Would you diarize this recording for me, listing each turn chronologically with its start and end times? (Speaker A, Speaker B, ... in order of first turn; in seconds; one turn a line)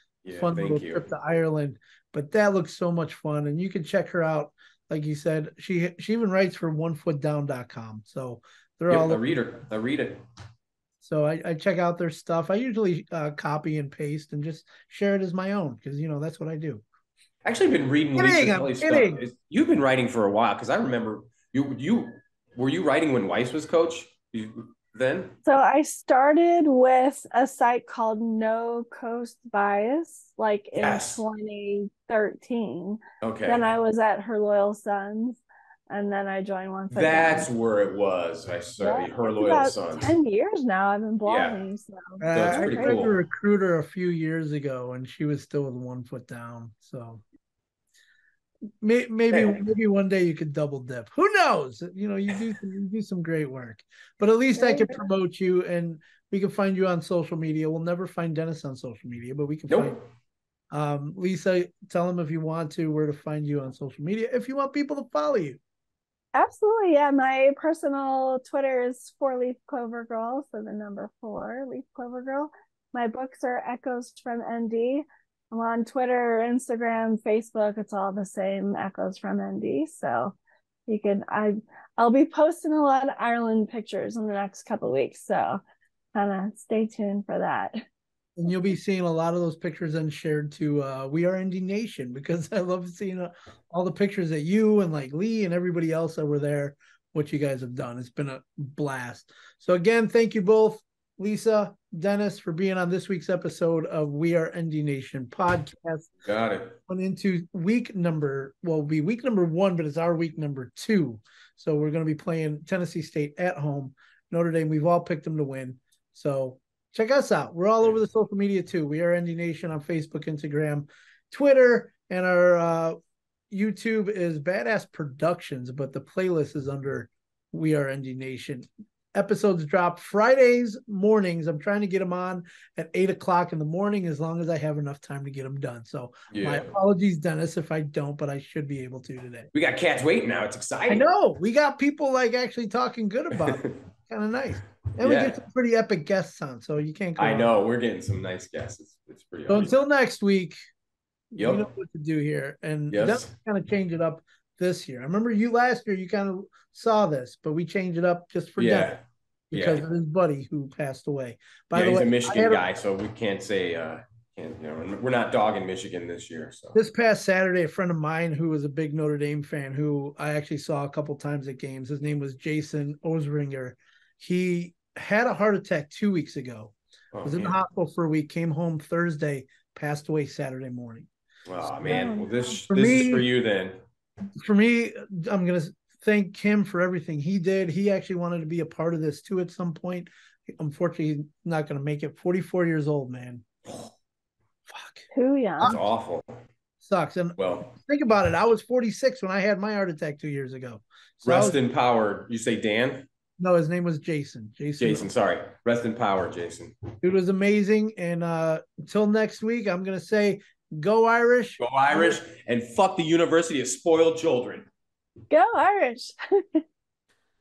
Speaker A: 0.2-1.1
Speaker B: 0.3-9.4
Speaker A: 8.9-10.2
Speaker B: 11.0-16.8
Speaker A: 17.4-25.4
Speaker B: 18.2-19.2
Speaker C: 25.4-37.5
Speaker A: 30.7-31.2
Speaker A: 33.2-33.6
Speaker A: 36.9-40.1
Speaker C: 38.8-43.0
Speaker A: 41.2-41.6
Speaker B: 42.2-47.2
Speaker A: 42.3-43.2
Speaker B: 48.8-60.0
Speaker A: 49.3-49.6
Speaker C: 54.6-55.0
Speaker A: 59.7-60.0
Speaker B: 60.7-65.6
Speaker C: 66.3-80.3
Speaker C: 80.9-85.6
Speaker C: 86.1-87.8
Speaker B: 88.4-106.1
Speaker A: 106.2-106.8
Speaker B: 106.9-123.0
Speaker B: 123.5-139.5
Speaker A: 136.3-136.7
Speaker A: 139.5-141.1
Speaker B: 140.9-147.5
Speaker A: 143.3-143.8
Speaker A: 145.0-145.4
Speaker A: 147.2-149.7
Speaker B: 149.5-150.6
Speaker B: 151.3-158.9
Speaker A: 151.4-151.7
Speaker A: 152.9-153.3
Speaker A: 158.6-159.8
Speaker B: 159.5-162.6
Speaker A: 161.7-166.8
Speaker B: 166.7-181.1
Speaker A: 177.1-177.6
Speaker A: 181.5-183.8
Speaker C: 181.8-182.6
Speaker B: 182.7-183.3
Speaker B: 184.4-193.8
Speaker B: 194.7-195.1
Speaker C: 195.1-195.8
Speaker A: 195.6-196.4
Speaker B: 196.8-201.6
Speaker A: 197.4-197.7
Speaker A: 201.2-203.1
Speaker B: 203.4-205.1
Speaker A: 204.8-206.8
Speaker B: 207.0-212.2
Speaker A: 211.6-214.7
Speaker C: 215.3-216.6